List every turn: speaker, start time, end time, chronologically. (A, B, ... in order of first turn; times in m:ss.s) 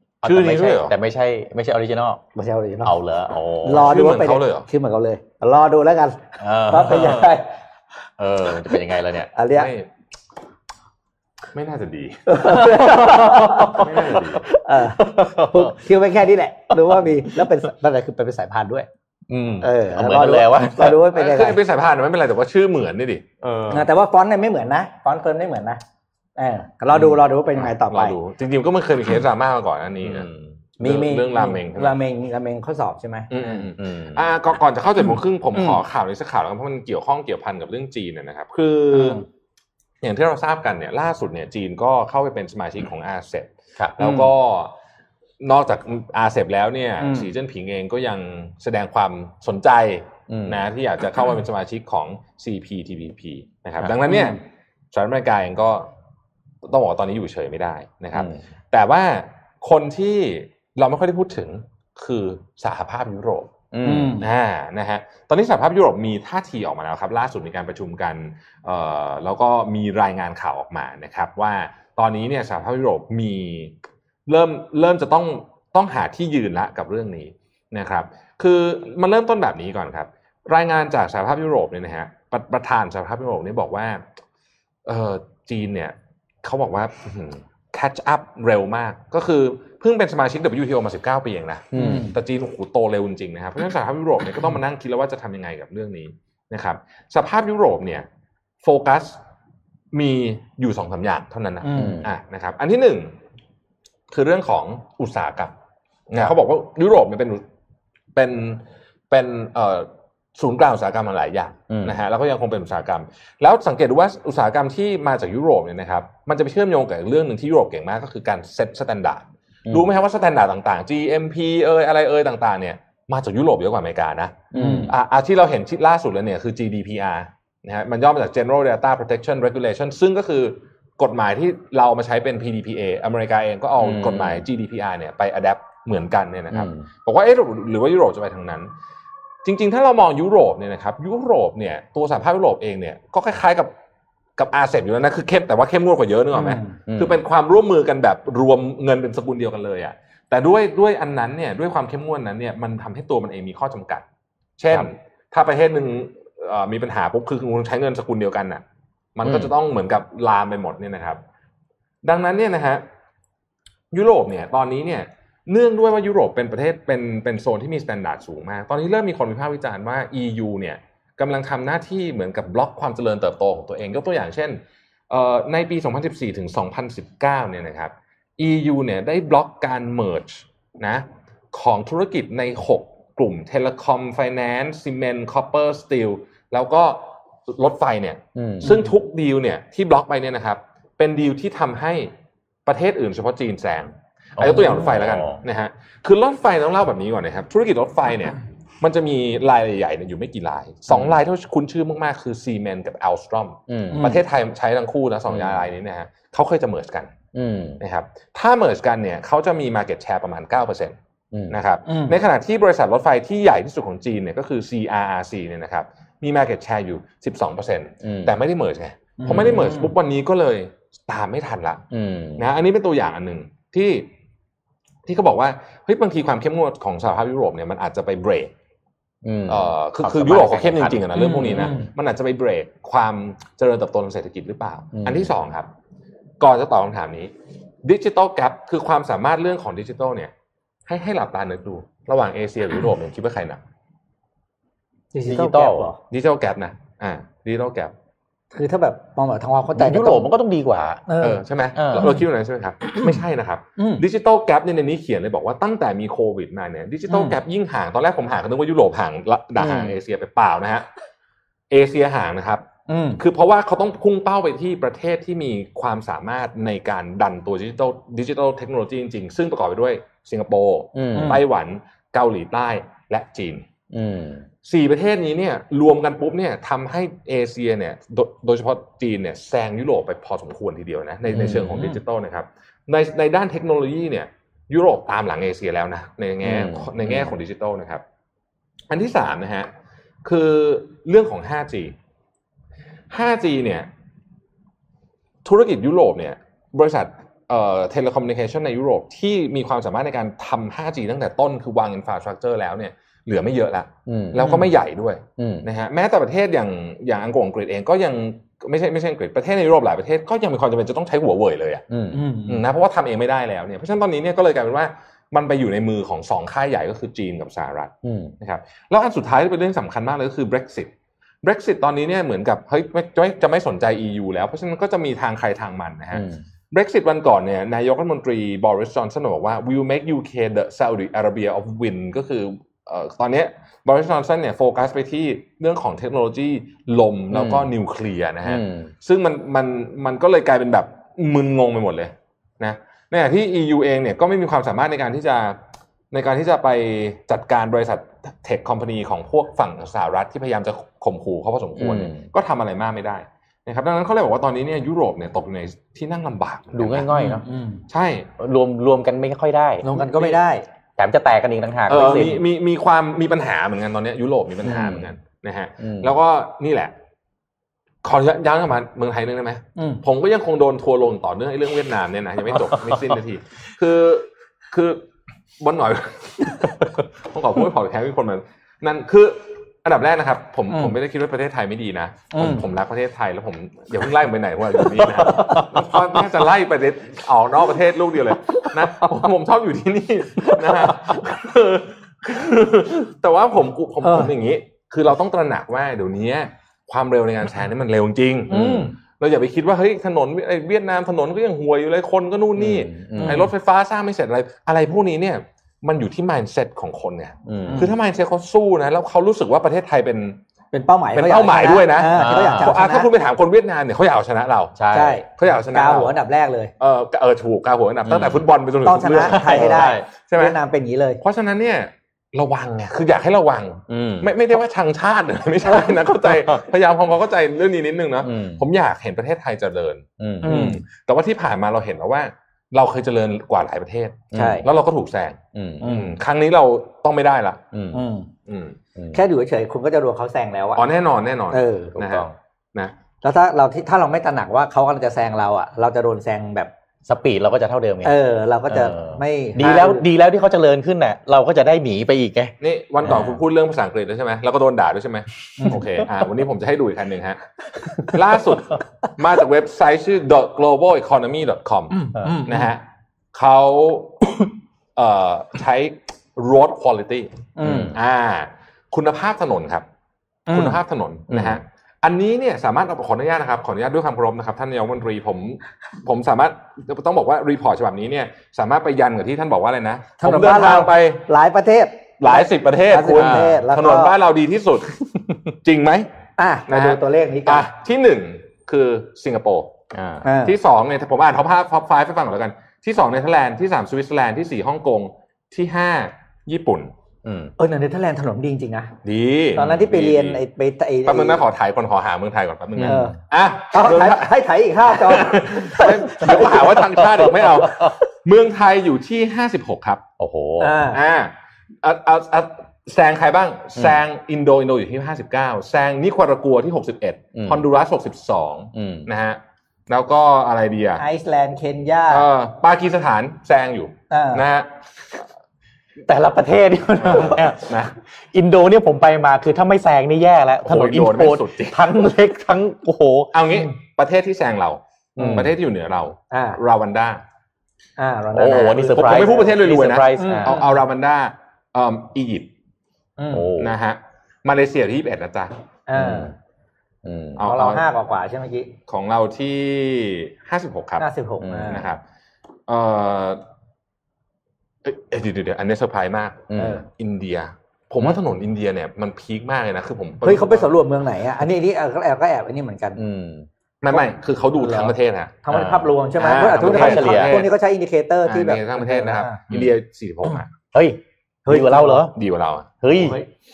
0:00.2-0:02.2 A
0:00.2-0:01.0 B
0:02.4-0:03.0 C
0:02.8-0:04.1 A
0:03.6-0:07.5 C
0:03.7-0:04.7 B
0:06.4-0:07.4 A
0:08.2-0:09.3 A
0:09.4-0:09.7 C
0:09.5-0:09.9 B
0:11.5-0:14.5 B
0:12.3-0:18.9 C
0:12.5-0:15.8 A
0:16.7-0:17.5 A
0:19.3-0:21.0 A
0:19.6-0:21.6 C
0:21.1-0:23.2 B
0:23.4-0:23.9 A
0:23.7-0:25.8 C
0:26.4-0:28.2 C
0:27.0-0:32.0 B
0:30.0-0:30.4 A
0:30.8-0:33.6 C
0:33.3-0:39.2 B
0:33.8-0:34.2 A
0:38.9-0:39.2 C
0:40.0-0:44.7 B
0:43.8-0:44.2 A
0:45.4-0:54.4 B
0:47.0-0:47.3 C
0:50.3-0:50.6 A
0:54.1-0:54.4 C
0:54.9-0:55.9 B
0:56.6-1:03.5 B
0:58.1-0:58.4 A
1:03.7-1:04.2 A
1:03.8-1:04.3 C
1:04.2-1:13.7 B
1:14.3-1:24.0 B
1:24.8-1:38.1 B
1:31.7-1:32.1 A
1:31.7-1:32.2 C
1:38.6-1:39.2 B
1:39.9-1:43.1 B
1:41.6-1:42.0 C
1:41.8-1:42.1 A
1:44.1-1:45.5 B
1:46.1-1:47.4 B
1:48.2-2:18.7 B
1:51.7-1:52.0 A
2:04.5-2:04.9 A
2:04.6-2:04.9 C
2:13.8-2:14.5 A
2:16.5-2:16.9 A
2:19.4-2:23.7 B
2:24.4-2:34.0 B
2:26.3-2:26.8 C
2:26.9-2:27.2 A
2:34.6-2:38.6 B
2:39.2-2:41.2 B
2:39.2-2:39.5 A
2:42.0-2:42.8 B
2:43.9-3:12.1 B
3:08.4-3:08.7 A
3:12.7-3:27.1 B
3:14.4-3:15.4 A
3:20.9-3:21.2 A
3:23.7-3:24.1 A
3:23.9-3:24.2 C
3:25.3-3:25.7 A
3:27.3-3:27.8 A
3:27.8-3:31.0 B
3:31.3-3:31.6 A
3:31.5-3:41.8 B
3:31.9-3:32.2 C
3:38.0-3:38.3 A
3:39.2-3:39.9 C
3:41.9-3:42.5 A
3:42.4-3:44.1 B
3:45.1-3:48.5 B
3:49.2-3:51.8 A
3:49.5-3:55.7 B
3:51.1-3:51.9 C
3:54.9-3:55.3 A
3:56.4-4:00.3 B
4:00.9-4:03.6 B
4:05.1-4:06.0 C
4:05.3-4:05.9 A
4:06.1-4:07.9 B
4:08.5-4:10.3 C
4:09.8-4:11.0 A
4:11.1-4:11.4 C
4:11.2-4:20.9 B
4:11.8-4:12.2 A
4:13.8-4:14.0 C
4:17.1-4:17.4 C
4:19.6-4:20.0 A
4:21.7-4:22.6 B
4:22.9-4:23.2 C
4:23.2-4:33.7 B
4:31.0-4:31.4 A
4:31.1-4:31.4 C
4:33.9-4:34.5 A
4:34.6-4:48.0 B
4:41.3-4:42.0 A
4:46.4-4:47.3 A
4:48.9-4:49.7 B
4:50.2-4:51.9 B
4:53.1-4:53.9 B
4:55.4-5:11.8 B
5:04.1-5:04.6 A
5:04.4-5:04.7 C
5:05.4-5:05.7 A
5:11.9-5:12.3 A
5:12.1-5:12.6 C
5:12.5-5:20.9 B
5:18.0-5:18.3 A
5:21.4-5:45.6 B
5:26.1-5:26.4 A
5:37.3-5:37.7 A
5:38.4-5:38.9 A
5:46.1-5:57.1 B
5:51.8-5:52.2 A
5:56.7-5:57.5 A
5:57.1-5:57.8 C
5:57.9-5:58.3 B
5:58.4-6:00.4 A
5:59.8-6:00.6 C
6:01.0-6:02.4 A
6:01.9-6:06.9 B
6:04.6-6:05.1 A
6:05.8-6:06.1 A
6:08.0-6:15.1 B
6:09.8-6:10.0 C
6:15.6-6:50.4 B
6:22.3-6:22.6 C
6:25.3-6:25.6 C
6:25.3-6:25.7 A
6:34.0-6:34.3 C
6:38.5-6:38.9 C
6:38.5-6:38.9 A
6:42.6-6:43.5 A
6:43.2-6:43.5 C
6:47.5-6:47.9 A
6:50.7-6:53.1 C
6:51.1-6:54.8 B
6:52.1-6:52.8 A
6:54.8-6:55.2 A
6:54.9-6:56.7 C
6:55.3-6:56.1 B
6:56.8-7:00.6 B
6:58.1-6:58.4 A
6:58.8-7:01.2 C
6:59.2-7:00.1 A
7:01.2-7:17.6 B
7:03.9-7:04.3 A
7:05.6-7:06.0 C
7:08.2-7:08.6 A
7:10.2-7:10.7 A
7:10.4-7:10.8 C
7:14.3-7:14.7 A
7:14.3-7:14.7 C
7:15.5-7:15.9 A
7:15.8-7:16.2 C
7:17.7-7:18.0 A
7:17.9-7:18.3 C
7:18.5-7:18.8 B
7:19.0-7:19.2 A
7:19.1-7:20.9 C
7:20.8-7:22.9 B
7:21.5-7:22.0 C
7:22.0-7:22.4 A
7:23.2-7:26.7 C
7:27.1-7:32.5 A
7:28.0-7:30.1 C
7:32.6-7:37.4 B
7:33.0-7:33.4 A
7:38.0-7:47.3 B
7:41.9-7:42.7 C
7:47.6-7:48.0 C
7:47.6-7:48.0 A
7:47.9-7:49.8 B
7:50.5-7:50.8 C
7:50.5-8:01.2 B
7:51.3-7:51.6 A
8:00.2-8:04.1 C
8:02.2-8:06.1 B
8:06.4-8:07.7 C
8:06.7-8:16.9 B
8:10.2-8:10.6 C
8:17.2-8:17.5 A
8:17.6-8:18.9 C
8:19.0-8:20.4 B
8:19.6-8:21.4 C
8:21.0-8:30.0 B
8:22.8-8:23.1 A
8:22.9-8:23.2 C
8:23.7-8:27.0 C
8:26.3-8:27.9 A
8:30.2-8:30.8 A
8:30.6-8:31.0 C
8:30.9-8:41.0 B
8:37.4-8:37.6 A
8:38.7-8:39.1 A
8:41.0-8:42.3 C
8:42.1-8:44.7 B
8:44.1-8:44.4 C
8:46.1-8:53.3 A
8:47.0-8:48.0 B
8:50.6-8:51.9 B
8:53.3-8:57.2 B
8:55.2-8:55.5 A
8:56.3-8:56.6 C
8:58.0-8:59.5 C
8:58.3-9:00.6 A
8:58.9-9:02.5 B
9:00.2-9:00.8 C
9:03.2-9:03.5 C
9:03.3-9:03.7 A
9:03.6-9:05.5 B
9:05.9-9:06.3 C
9:06.0-9:06.3 A
9:07.0-9:07.4 A
9:07.4-9:07.8 B
9:07.4-9:08.7 C
9:08.9-9:11.1 B
9:11.0-9:11.9 C
9:11.4-9:11.8 A
9:11.7-9:12.0 B
9:12.7-9:13.4 B
9:14.8-9:20.7 B
9:16.5-9:16.8 A
9:16.6-9:16.8 C
9:20.2-9:23.0 C
9:23.0-9:23.5 A
9:23.8-9:25.4 B
9:24.6-9:29.4 C
9:25.5-9:25.9 A
9:26.2-9:27.5 B
9:26.5-9:27.4 A
9:28.3-9:30.5 B
9:30.7-9:32.1 A
9:31.5-9:32.1 C
9:32.1-9:32.7 B
9:32.8-9:33.2 A
9:32.9-9:33.3 C